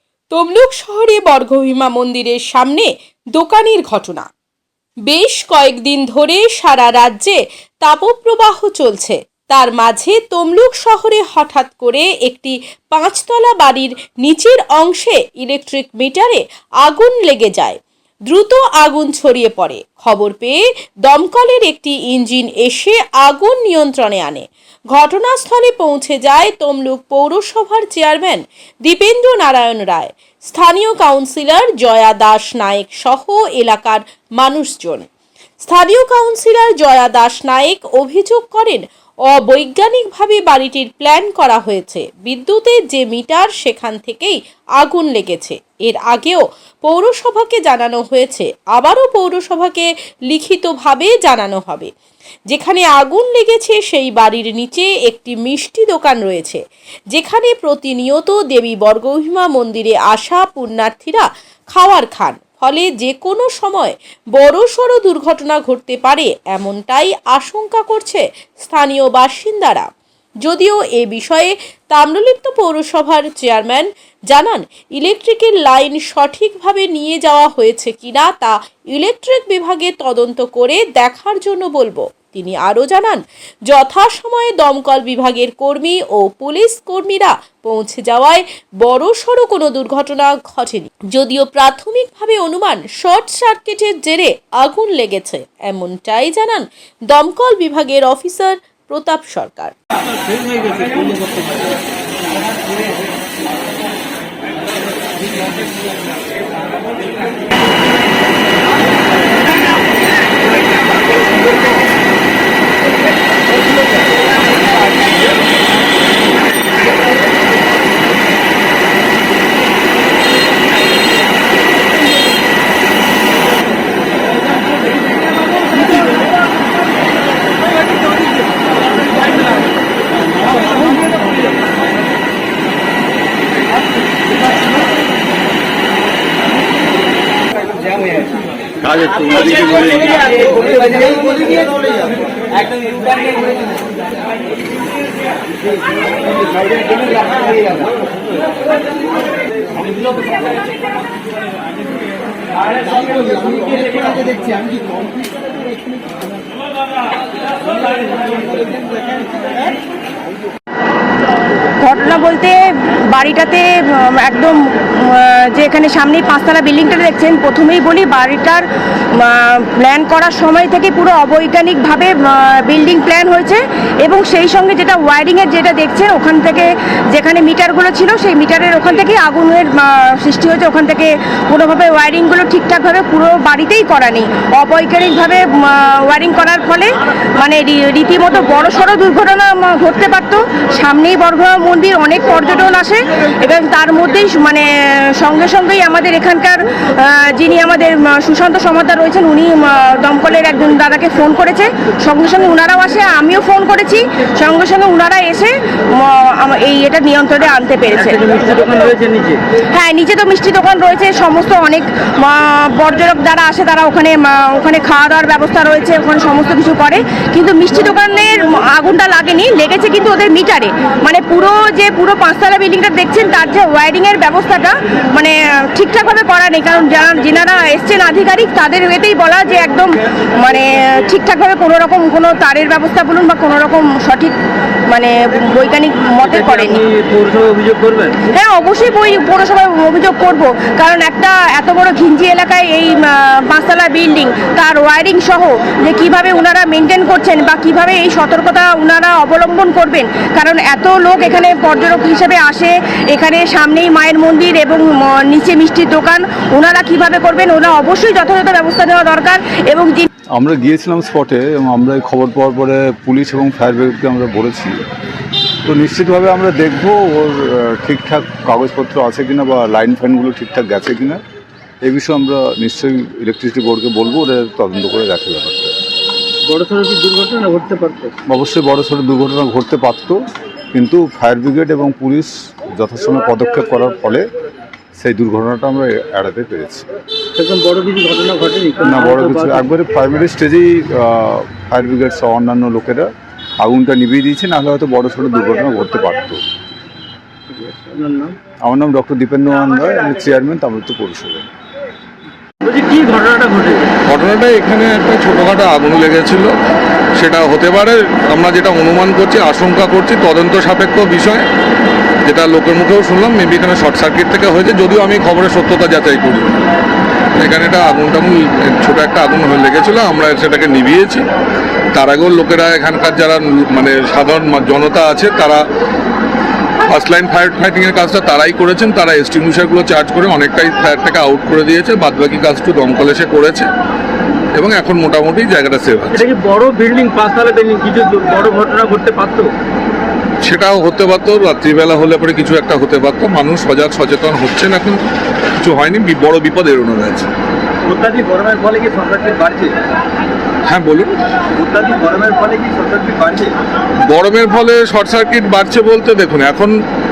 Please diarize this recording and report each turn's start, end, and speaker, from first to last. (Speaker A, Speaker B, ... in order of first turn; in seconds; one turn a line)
Speaker A: 0.3-4.3
Speaker A: 5.1-35.1
Speaker A: 35.6-51.9
Speaker A: 52.5-56.6
Speaker A: 57.1-69.9
Speaker A: 70.4-99.7
Speaker B: 139.2-139.8
Speaker C: 161.8-168.7
Speaker C: 169.2-208.2
Speaker B: 208.0-209.4
Speaker C: 209.7-234.4
Speaker C: 234.9-236.8
Speaker B: 236.2-238.2
Speaker C: 238.3-260.1
Speaker D: 260.4-264.8
Speaker D: 265.7-271.2
Speaker D: 271.8-275.7
Speaker B: 276.5-278.1
Speaker D: 278.3-280.2
Speaker D: 280.7-284.2
Speaker D: 285.0-286.9
Speaker B: 287.4-289.7
Speaker D: 288.8-293.1
Speaker D: 293.6-296.4
Speaker B: 297.5-298.4
Speaker D: 298.6-301.5
Speaker B: 302.6-303.9
Speaker E: 304.1-306.5
Speaker E: 307.2-311.5
Speaker E: 312.3-316.6
Speaker E: 317.4-321.2
Speaker E: 321.9-325.6
Speaker E: 326.9-333.7
Speaker E: 334.5-336.3
Speaker B: 336.1-339.5
Speaker E: 340.4-345.0
Speaker E: 345.6-347.3
Speaker B: 347.9-349.7
Speaker E: 350.7-351.1
Speaker B: 351.6-353.5
Speaker E: 354.1-356.8